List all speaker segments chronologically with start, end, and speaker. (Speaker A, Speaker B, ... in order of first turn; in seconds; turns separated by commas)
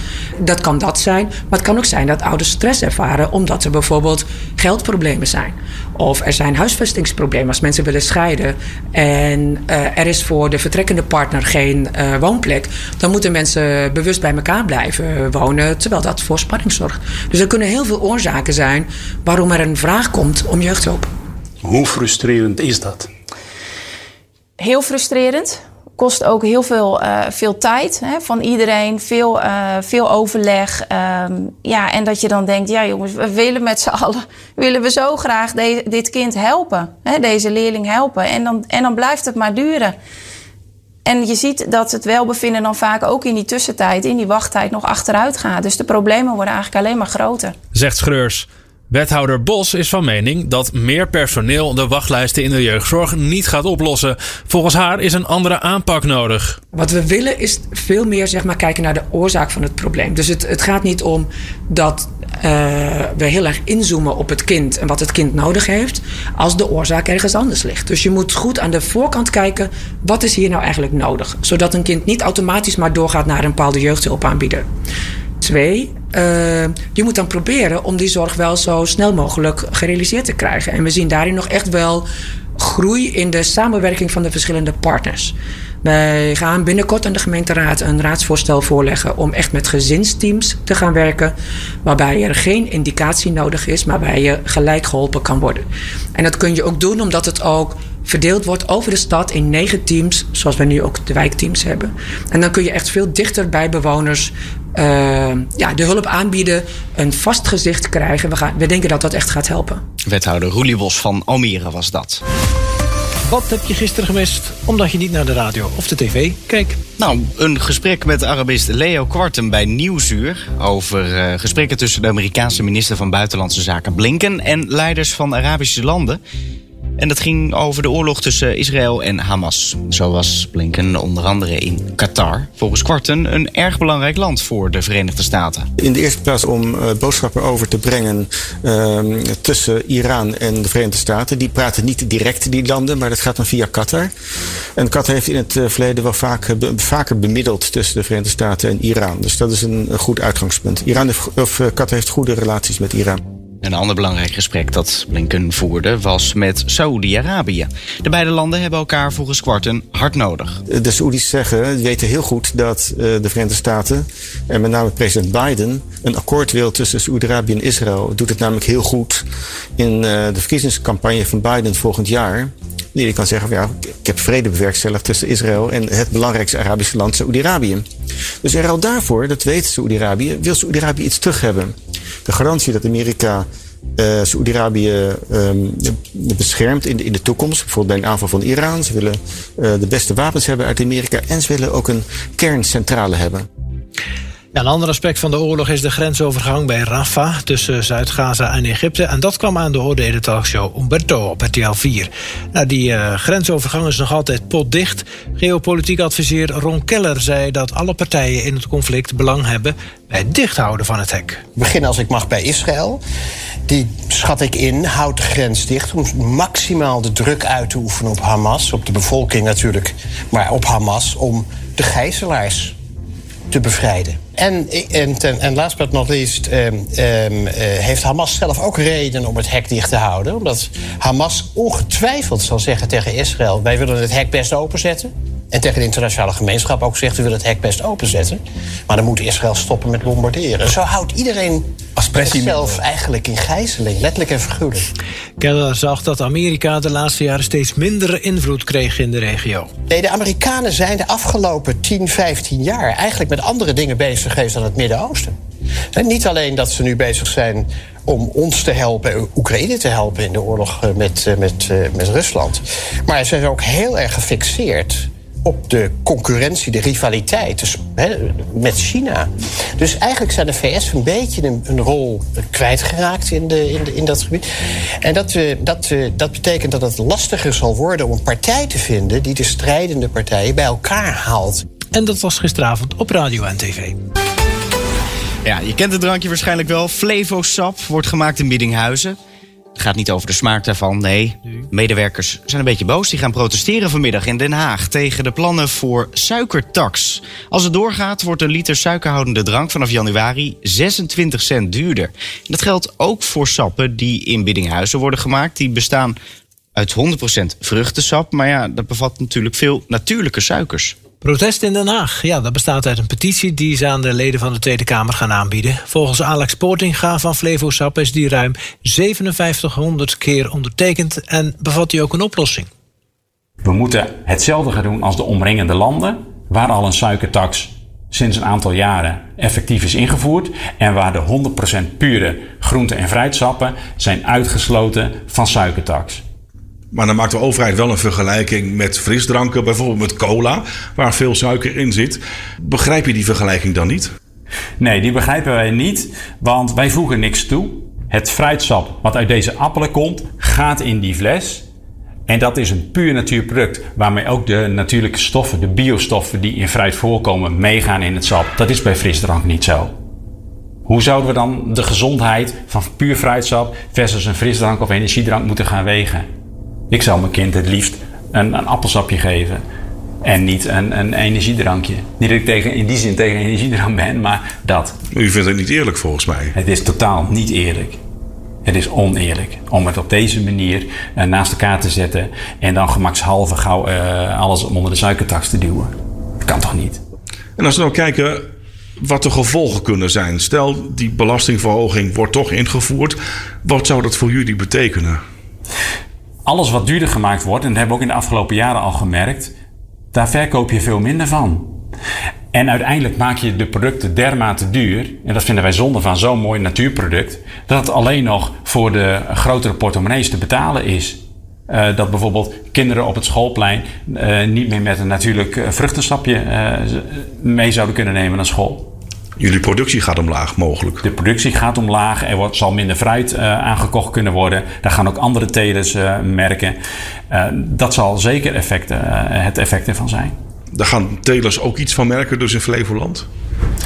Speaker A: 0.4-21.1, Speaker B: 24.6-40.0, Speaker B: 41.0-47.5, Speaker C: 47.7-56.6, Speaker A: 56.7-74.7, Speaker A: 75.4-109.8, Speaker D: 110.0-112.2, Speaker E: 113.3-116.8, Speaker D: 117.0-126.2, Speaker D: 127.0-135.7, Speaker F: 135.8-144.1, Speaker F: 144.8-153.2, Speaker D: 153.6-160.6, Speaker F: 160.7-169.2, Speaker F: 169.8-177.8, Speaker F: 178.4-181.7, Speaker F: 182.2-183.5, Speaker F: 184.0-193.5, Speaker E: 194.5-211.4, Speaker G: 211.6-213.0, Speaker G: 213.7-222.7, Speaker G: 223.5-244.8, Speaker E: 245.4-249.7, Speaker G: 249.9-255.3, Speaker G: 255.9-274.4, Speaker G: 275.0-281.6, Speaker E: 281.9-284.0, Speaker D: 285.4-289.2, Speaker D: 289.8-306.2, Speaker D: 306.8-311.0, Speaker E: 311.2-322.7, Speaker H: 323.6-336.2, Speaker I: 336.9-344.1, Speaker H: 344.8-351.6, Speaker H: 352.3-359.9, Speaker H: 360.9-366.3, Speaker H: 366.9-369.6, Speaker H: 370.2-374.9, Speaker I: 375.1-376.6, Speaker H: 376.6-378.0, Speaker H: 378.6-385.9, Speaker H: 386.4-387.0, Speaker I: 387.6-388.4, Speaker I: 389.0-395.2, Speaker H: 396.5-399.5, Speaker H: 400.1-401.7, Speaker H: 402.5-418.9, Speaker I: 419.4-421.0, Speaker H: 421.0-426.8, Speaker H: 427.3-430.3, Speaker I: 430.7-433.3